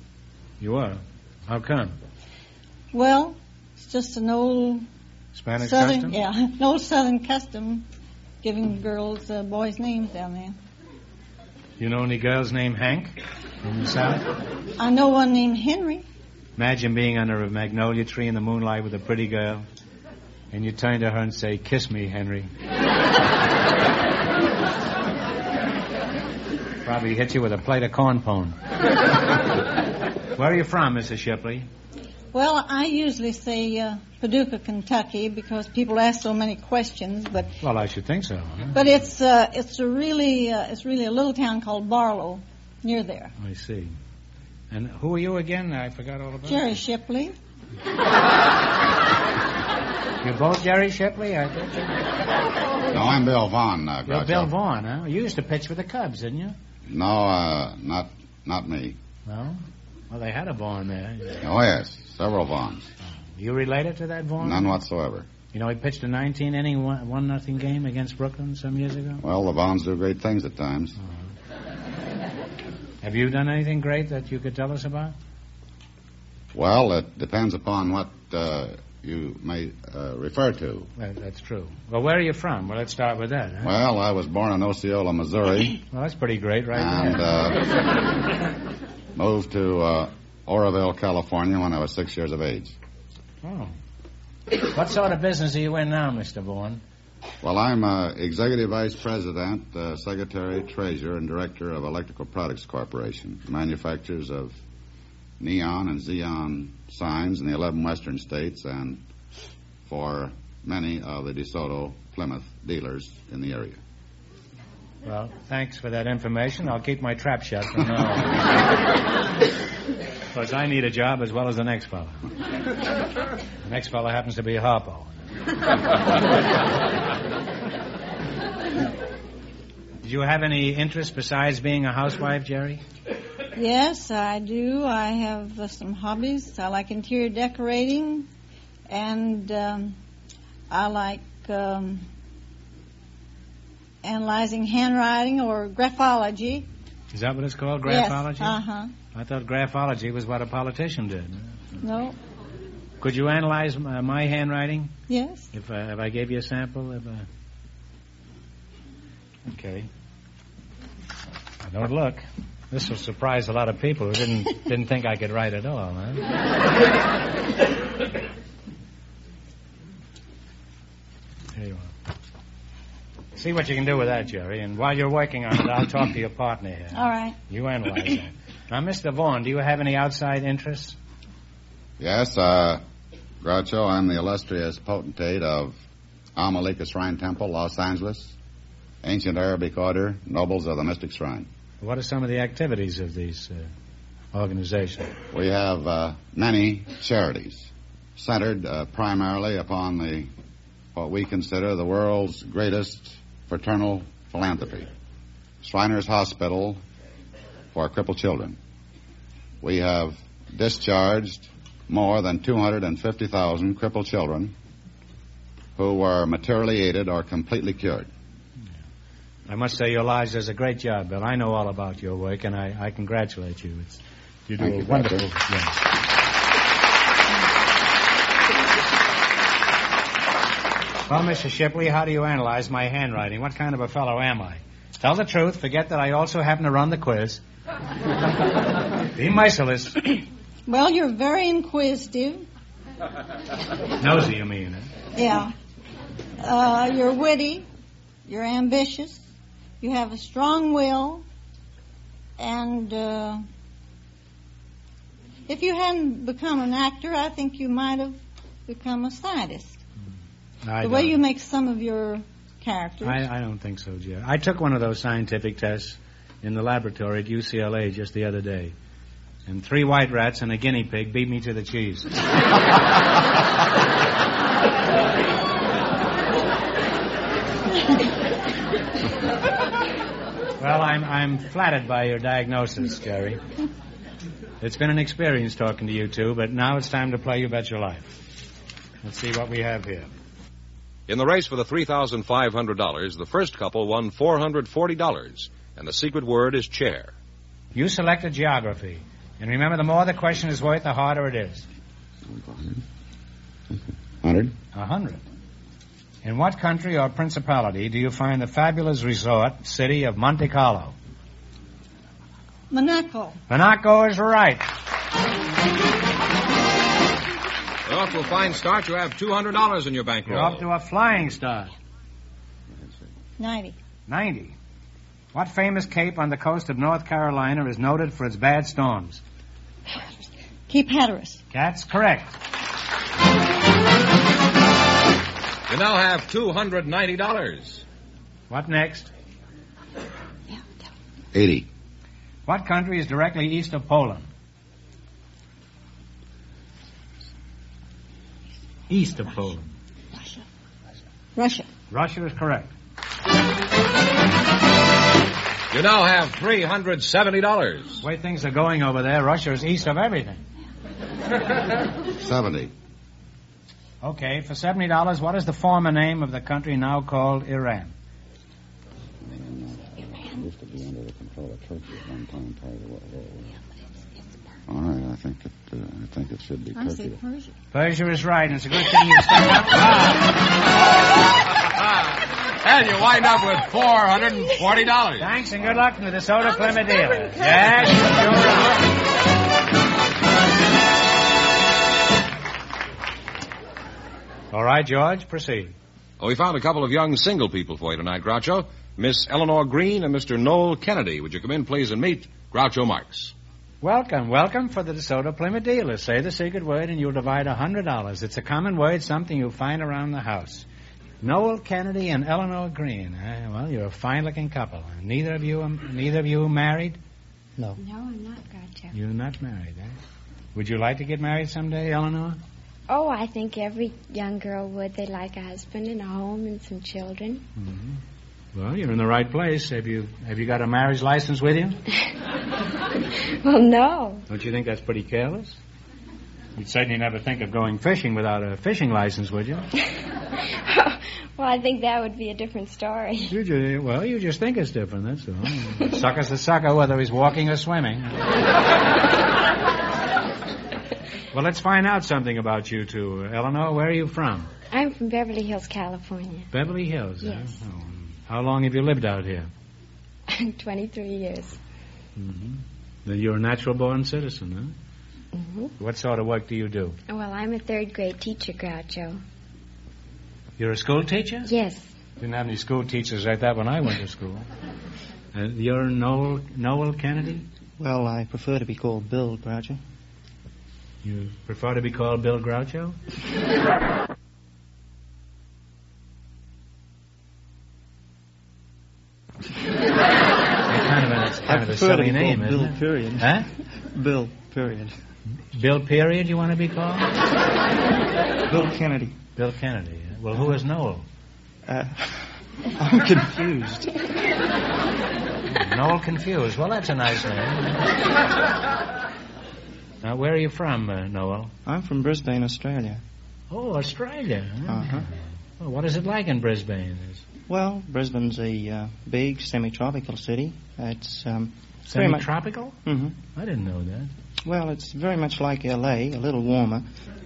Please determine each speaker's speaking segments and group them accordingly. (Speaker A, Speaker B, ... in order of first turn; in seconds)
Speaker A: 0.6-1.9, 5.3-6.2, 11.8-14.3, 16.6-19.6, 20.5-22.5, 26.8-28.6, 30.3-31.7, 37.6-38.8, 43.4-43.9, 44.7-46.8, 50.2-51.9, 54.0-56.5, 59.2-61.4, 63.4-64.8, 65.5-69.2, 73.0-75.1, 81.0-83.7, 85.9-87.3, 93.4-93.7, 94.7-96.8, 115.0-118.4, 120.3-122.2, 123.6-125.2, 130.0-132.8, 147.1-148.6, 149.1-151.6, 153.0-154.9, 155.5-157.3, 159.4-159.9, 161.6-166.3, 171.5-171.9, 173.3-181.0, 191.8-193.7, 194.3-195.1, 219.5-225.8, 231.1-237.4, 239.1-240.1, 244.0-244.9, 260.6-261.1, 263.0-268.7, 269.4-272.1, 280.6-283.4, 284.6-288.1, 289.0-290.1, 297.7-301.6, 304.7-305.2, 306.2-310.9, 313.5-314.6, 320.3-321.7, 324.1-324.6, 325.3-329.2, 331.5-332.3, 338.5-339.1, 342.4-344.3, 348.9-349.7, 351.9-352.7, 358.0-360.4, 364.0-367.9, 377.7-380.3, 385.2-388.9, 394.5-395.7, 403.8-410.7, 411.2-417.0, 418.9-420.0, 420.5-422.4, 427.6-428.0, 428.5-431.8, 434.3-435.6, 436.6-439.7, 443.3-448.2, 451.3-454.5, 456.5-459.5, 462.1-464.7, 465.8-467.0, 470.6-471.5, 472.2-474.4, 475.3-477.4, 481.0-483.0, 490.7-493.5, 495.5-497.1, 499.4-501.0, 505.5-507.9, 510.0-511.5, 513.5-517.2, 521.9-522.8, 523.3-524.1
Speaker B: 2.9-4.8, 5.6-7.8, 8.4-10.6, 14.8-16.1, 32.3-37.5, 38.7-43.3, 46.5-47.3, 133.6-138.3, 138.9-140.0, 140.7-142.0, 144.0-146.7, 147.8-148.9, 151.8-152.2, 155.1-155.5, 176.9-177.4, 240.7-242.4, 245.1-245.5, 246.4-247.7, 248.2-249.2, 249.8-251.2, 252.4-253.4, 255.5-259.8, 260.8-263.2, 312.7-313.4, 323.4-323.8, 330.7-331.4, 351.4-351.7, 376.7-377.5
Speaker C: 52.9-54.5, 56.9-59.0, 61.4-62.9, 64.4-65.3, 69.2-71.0, 76.5-80.9, 83.6-85.8, 86.7-87.7, 89.1-92.7, 97.4-104.6, 105.4-109.0, 109.9-113.8, 182.0-182.8, 183.4-185.8, 186.3-188.3, 189.0-191.5, 195.3-200.3, 200.9-204.9, 205.6-206.8, 207.7-208.6, 209.6-214.5, 215.8-218.1, 224.6-225.2, 302.3-302.8, 304.2-304.5, 341.3-341.7, 362.2-362.7, 369.2-373.6, 374.7-377.2
Speaker D: 291.1-297.1, 317.9-320.6, 335.7-337.8, 355.7-358.0, 382.6-385.3, 396.2-403.3
Speaker E: 417.8-418.9, 422.9-427.4, 433.4-434.2, 440.6-443.3, 454.7-456.5, 457.2-457.6, 460.3-461.6, 465.3-465.7, 467.1-469.2, 471.4-471.9
Speaker F: 477.8-479.8, 491.4-494.9, 498.4-499.2, 501.6-503.9, 511.6-513.0, 514.7-515.1, 517.5-523.1, 524.4-526.9